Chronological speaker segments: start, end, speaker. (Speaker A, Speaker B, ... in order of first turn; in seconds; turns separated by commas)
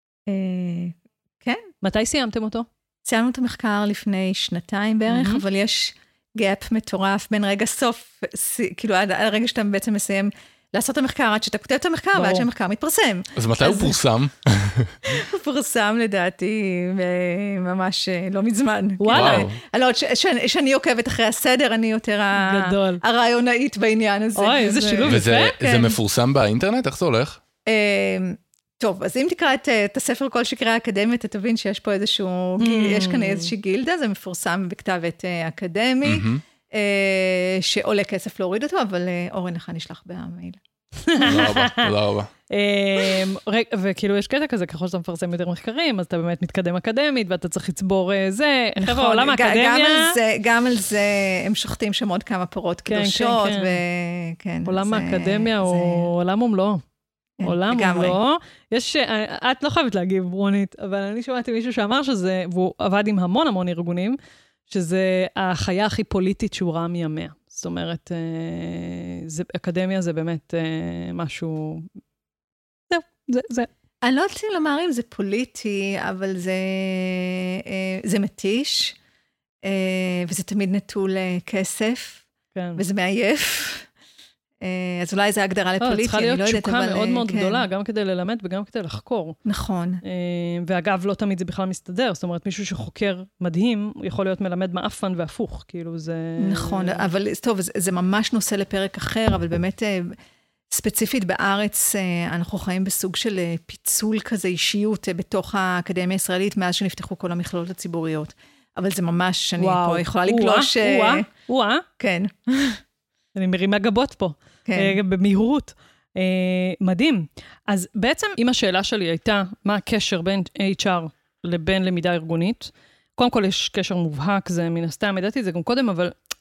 Speaker A: 0.3-1.6, Speaker B: 1.8-2.7, Speaker A: 3.0-14.0, Speaker B: 5.1-5.4, Speaker B: 12.1-12.4, Speaker C: 13.3-15.0, Speaker A: 15.1-26.0, Speaker B: 19.0-19.5, Speaker C: 19.1-19.6, Speaker B: 22.3-23.0, Speaker B: 24.4-25.6, Speaker C: 25.1-27.4, Speaker A: 27.6-40.6, Speaker B: 32.6-33.5, Speaker C: 36.0-36.4, Speaker B: 41.0-41.9, Speaker C: 41.2-42.3, Speaker B: 42.5-50.2, Speaker A: 48.8-56.1, Speaker B: 52.9-53.8, Speaker B: 54.6-56.8, Speaker A: 57.4-58.2, Speaker B: 57.4-71.9, Speaker B: 72.9-73.7, Speaker A: 74.0-79.0, Speaker A: 79.6-83.9, Speaker B: 82.5-82.8, Speaker A: 84.6-87.7, Speaker B: 85.8-89.4, Speaker A: 89.4-90.0, Speaker B: 90.0-97.1, Speaker A: 96.4-100.2, Speaker A: 100.7-111.3, Speaker B: 109.6-111.8, Speaker A: 112.0-112.8, Speaker B: 113.3-126.1, Speaker A: 114.7-115.0